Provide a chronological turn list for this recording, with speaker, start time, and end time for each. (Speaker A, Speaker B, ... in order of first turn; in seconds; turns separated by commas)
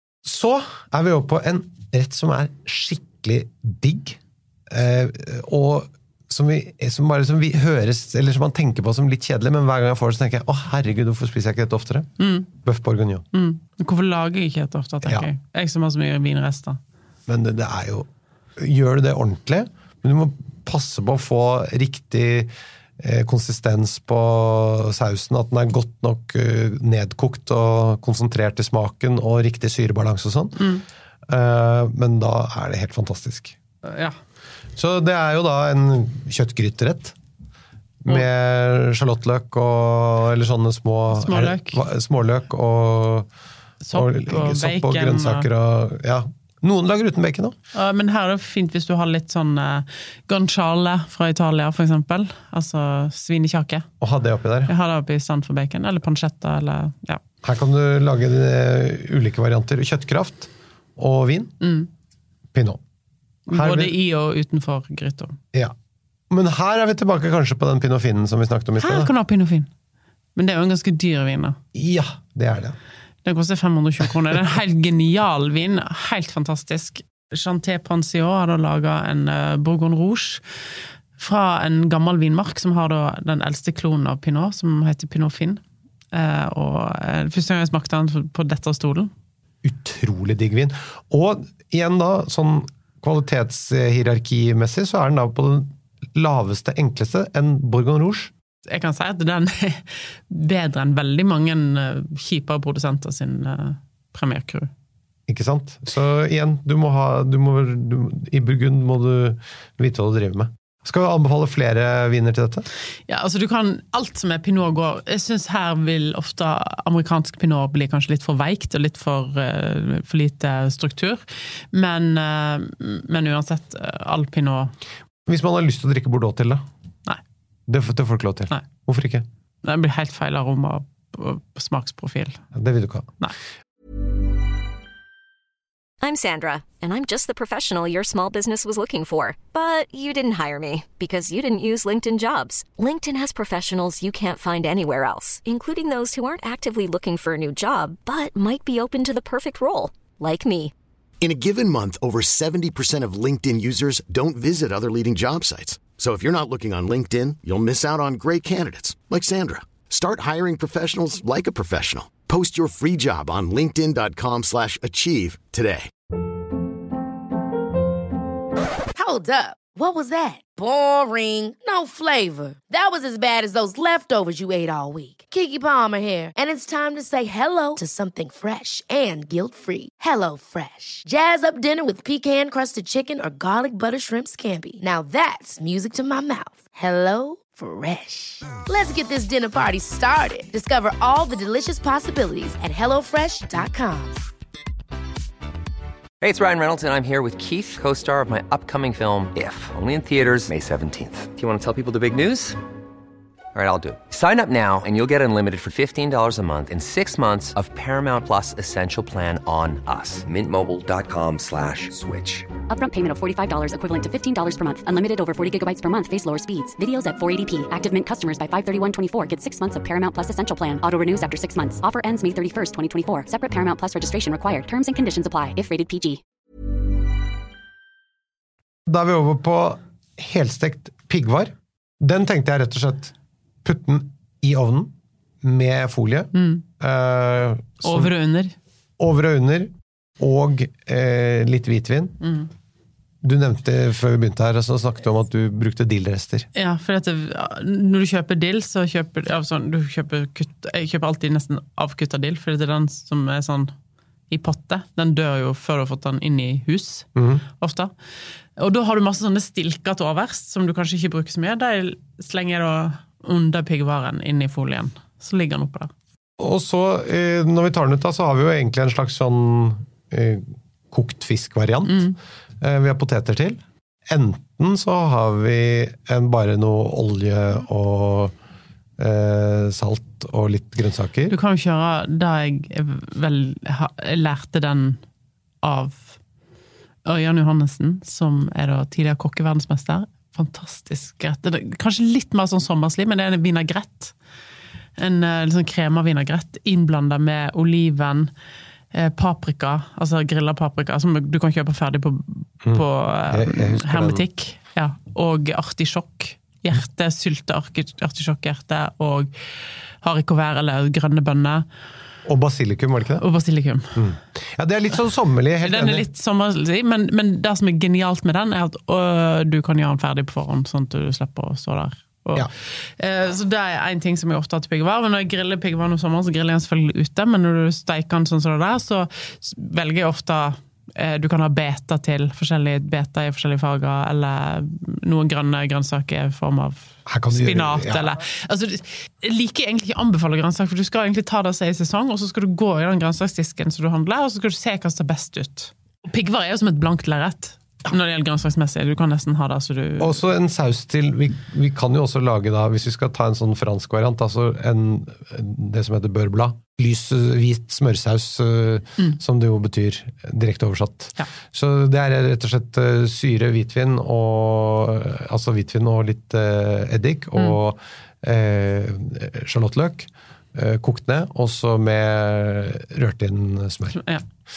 Speaker A: 0.2-13.2, Speaker B: 12.2-12.5, Speaker B: 13.3-16.8, Speaker A: 17.3-30.6, Speaker B: 30.6-30.8, Speaker A: 31.3-33.6, Speaker B: 33.8-34.1, Speaker A: 34.8-37.1, Speaker A: 38.0-43.3, Speaker B: 41.1-41.8, Speaker B: 43.8-45.5, Speaker A: 43.9-47.5, Speaker B: 47.7-53.9, Speaker A: 54.0-54.7, Speaker B: 54.7-57.2, Speaker A: 57.4-61.5, Speaker B: 61.6-61.9, Speaker A: 62.5-62.8, Speaker B: 63.5-65.4, Speaker A: 63.5-63.9, Speaker A: 66.3-69.1, Speaker B: 68.8-69.7, Speaker B: 70.4-71.6, Speaker A: 71.7-72.8, Speaker B: 73.2-80.4, Speaker B: 81.2-89.1, Speaker A: 89.6-98.3, Speaker B: 98.7-104.7, Speaker A: 105.3-112.7, Speaker B: 113.1-124.7, Speaker A: 125.3-126.6, Speaker A: 127.7-129.3, Speaker B: 129.6-132.4, Speaker A: 132.5-133.1, Speaker C: 136.0-150.7, Speaker D: 151.2-165.9, Speaker E: 169.0-194.2, Speaker F: 196.2-202.6, Speaker F: 203.5-212.5, Speaker G: 212.7-226.2, Speaker A: 228.9-233.1, Speaker A: 233.6-238.1, Speaker B: 236.3-236.6, Speaker B: 237.8-238.6, Speaker A: 239.0-242.2, Speaker B: 242.2-242.5, Speaker A: 243.2-246.5, Speaker B: 246.6-253.7, Speaker B: 254.3-257.9, Speaker A: 257.1-257.4, Speaker B: 258.6-265.9, Speaker A: 266.4-278.3, Speaker B: 271.9-272.1, Speaker A: 279.0-281.4, Speaker B: 281.3-285.0, Speaker B: 285.6-286.2, Speaker B: 287.1-294.1, Speaker B: 295.0-298.3, Speaker B: 298.9-309.3, Speaker A: 302.6-304.2, Speaker B: 310.0-311.6, Speaker A: 312.2-313.2, Speaker B: 313.2-314.0, Speaker A: 313.9-316.1, Speaker B: 315.6-350.2, Speaker A: 337.1-338.1, Speaker A: 350.0-374.0, Speaker B: 373.9-374.2